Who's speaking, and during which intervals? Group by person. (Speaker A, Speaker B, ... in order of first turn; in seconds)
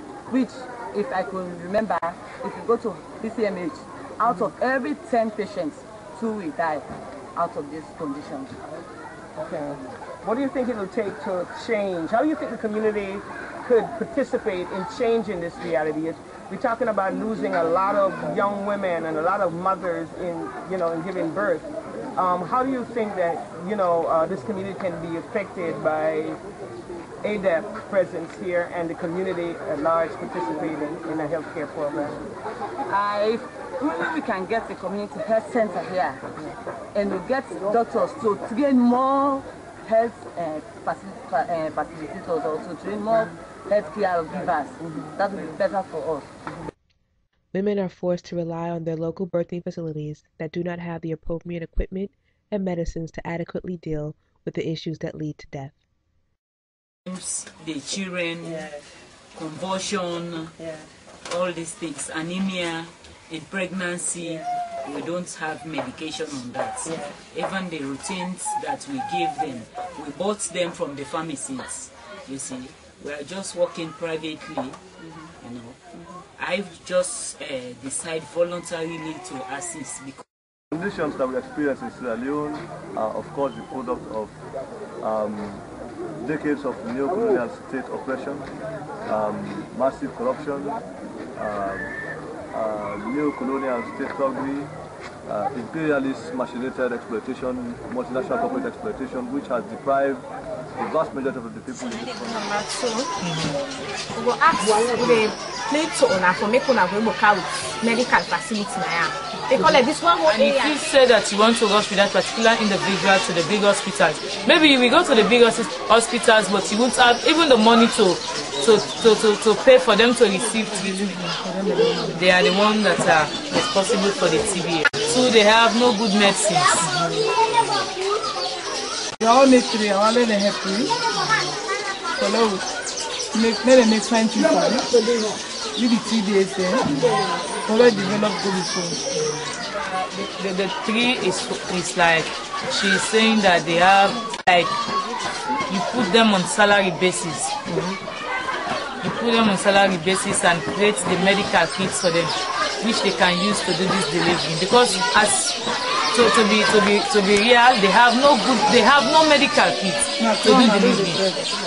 Speaker A: 0.3-8.7, 32.9-36.2, 36.9-46.3
Speaker B: 9.4-26.4, 27.2-32.3
Speaker C: 47.5-55.8
Speaker D: 57.1-58.8, 59.4-60.6, 61.2-74.8, 75.4-75.8, 76.4-80.2
Speaker E: 80.7-84.3, 85.0-85.7, 86.2-88.5, 89.1-90.8, 91.4-91.9, 92.5-94.7, 95.3-100.2, 100.8-102.5
Speaker F: 101.8-103.1, 104.1-110.8
Speaker G: 103.2-103.6, 109.5-121.2, 122.1-126.9, 139.8-144.7, 145.7-148.0, 149.0-155.6, 156.1-161.2
Speaker H: 120.8-122.2, 129.2-130.9, 132.2-132.6, 133.3-134.9, 135.8-137.0, 137.6-139.0, 160.2-161.3